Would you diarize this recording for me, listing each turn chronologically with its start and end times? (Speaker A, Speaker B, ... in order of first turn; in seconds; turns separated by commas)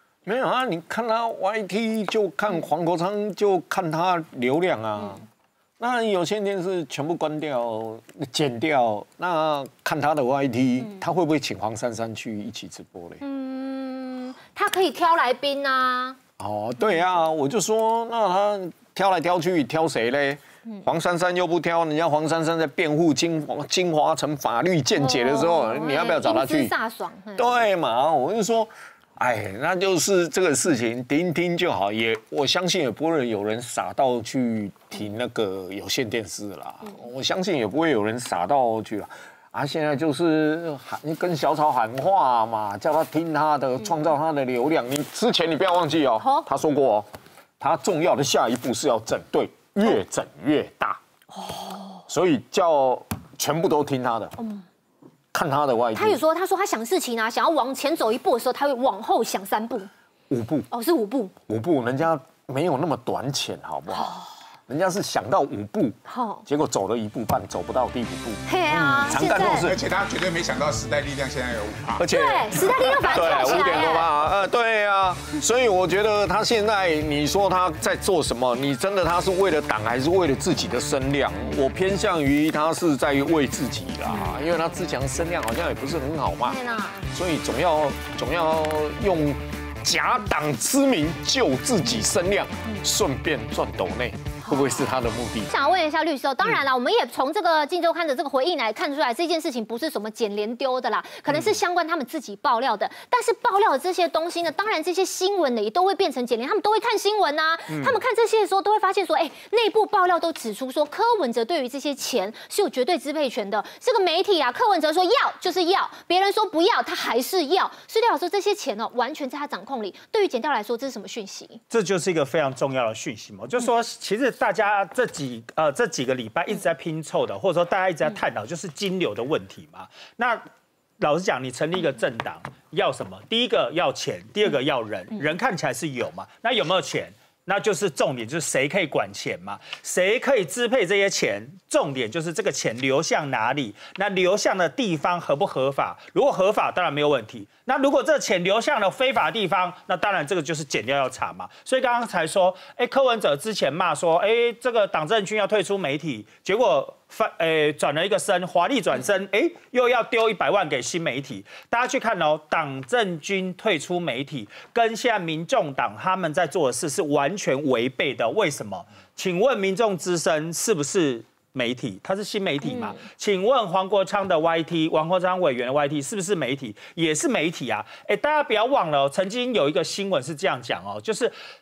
Speaker A: 0.2-5.2, Speaker A: 5.8-13.2, Speaker B: 13.2-16.2, Speaker A: 16.4-26.7, Speaker B: 25.0-27.6, Speaker A: 27.4-47.1, Speaker B: 46.2-46.5, Speaker A: 47.6-51.0, Speaker B: 51.3-52.0, Speaker A: 52.1-54.4, Speaker B: 54.4-54.6, Speaker A: 55.3-56.2, Speaker B: 55.9-59.9, Speaker A: 60.3-60.7, Speaker B: 60.7-61.3, Speaker A: 61.5-64.1, Speaker B: 63.9-64.3, Speaker A: 64.7-69.8, Speaker B: 66.0-66.4, Speaker B: 68.5-69.7, Speaker C: 69.4-72.0, Speaker A: 72.0-86.6, Speaker B: 72.1-74.1, Speaker C: 72.9-73.7, Speaker B: 86.4-87.0, Speaker A: 87.1-95.5, Speaker B: 94.4-94.8, Speaker B: 95.5-121.6, Speaker D: 101.3-101.5, Speaker D: 107.7-108.0, Speaker D: 121.7-130.4, Speaker D: 131.0-181.3, Speaker B: 172.6-172.9